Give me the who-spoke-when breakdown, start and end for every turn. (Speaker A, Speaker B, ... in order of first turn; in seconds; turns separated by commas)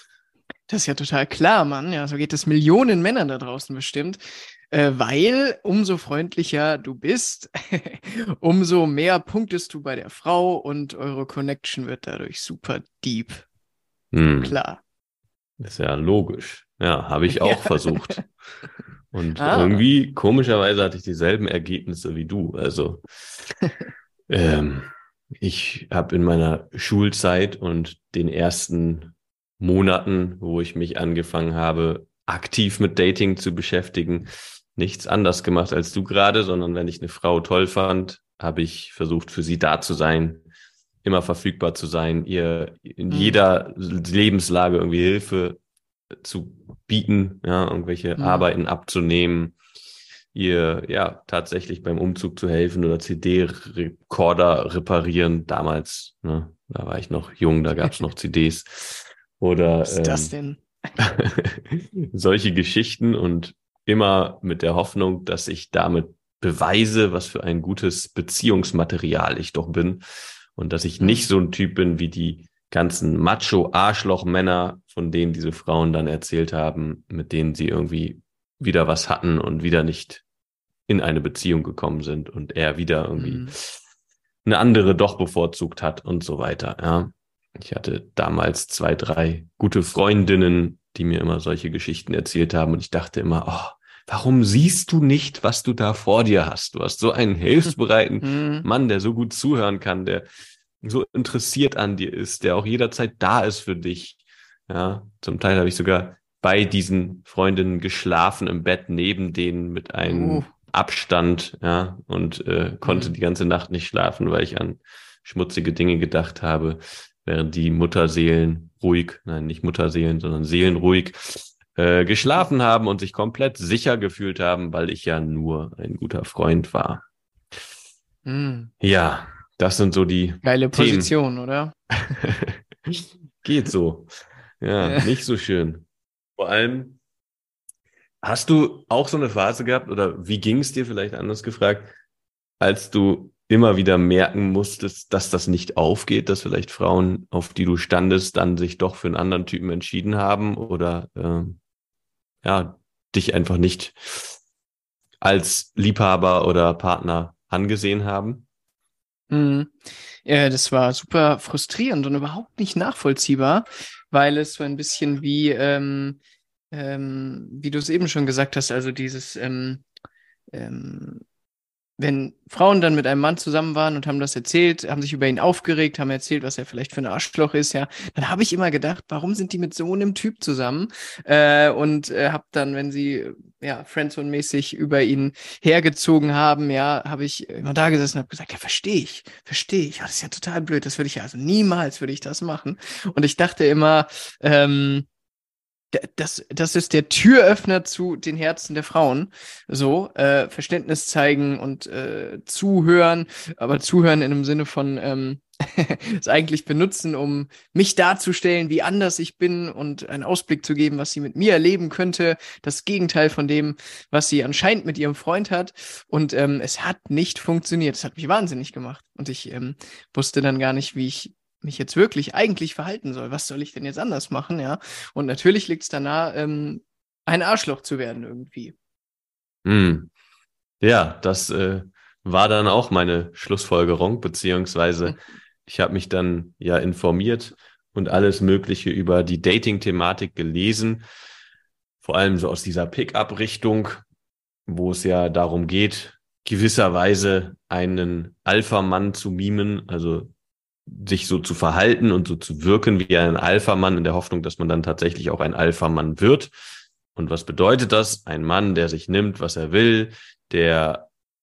Speaker A: 0.7-13.4, Speaker B: 14.1-14.6, Speaker A: 14.4-14.8, Speaker B: 15.6-18.2, Speaker A: 17.3-18.2, Speaker B: 19.1-23.0, Speaker A: 19.4-19.9, Speaker B: 24.3-40.5, Speaker B: 41.0-45.6, Speaker A: 43.1-43.4, Speaker B: 46.2-49.6, Speaker A: 48.2-48.5, Speaker B: 50.3-60.3, Speaker A: 59.9-60.6, Speaker B: 61.0-70.0, Speaker B: 70.6-80.2, Speaker A: 71.0-71.3, Speaker B: 80.9-83.6, Speaker A: 83.2-83.5, Speaker B: 84.5-100.3, Speaker A: 98.2-98.7, Speaker B: 100.8-127.0, Speaker A: 110.0-110.5, Speaker A: 112.8-113.2, Speaker A: 128.3-128.7, Speaker B: 128.8-131.1, Speaker A: 130.4-131.8, Speaker B: 132.2-134.1, Speaker B: 134.6-135.8, Speaker B: 136.4-137.0, Speaker B: 138.2-141.9, Speaker B: 142.6-151.6, Speaker B: 152.4-154.3, Speaker B: 155.2-158.4, Speaker A: 159.3-166.2, Speaker A: 166.7-169.8, Speaker A: 170.5-171.2, Speaker A: 172.0-195.1, Speaker A: 195.9-228.8, Speaker B: 229.7-230.1, Speaker B: 230.8-241.0, Speaker B: 242.0-244.0, Speaker B: 244.7-250.3, Speaker B: 250.9-256.5, Speaker B: 257.1-261.1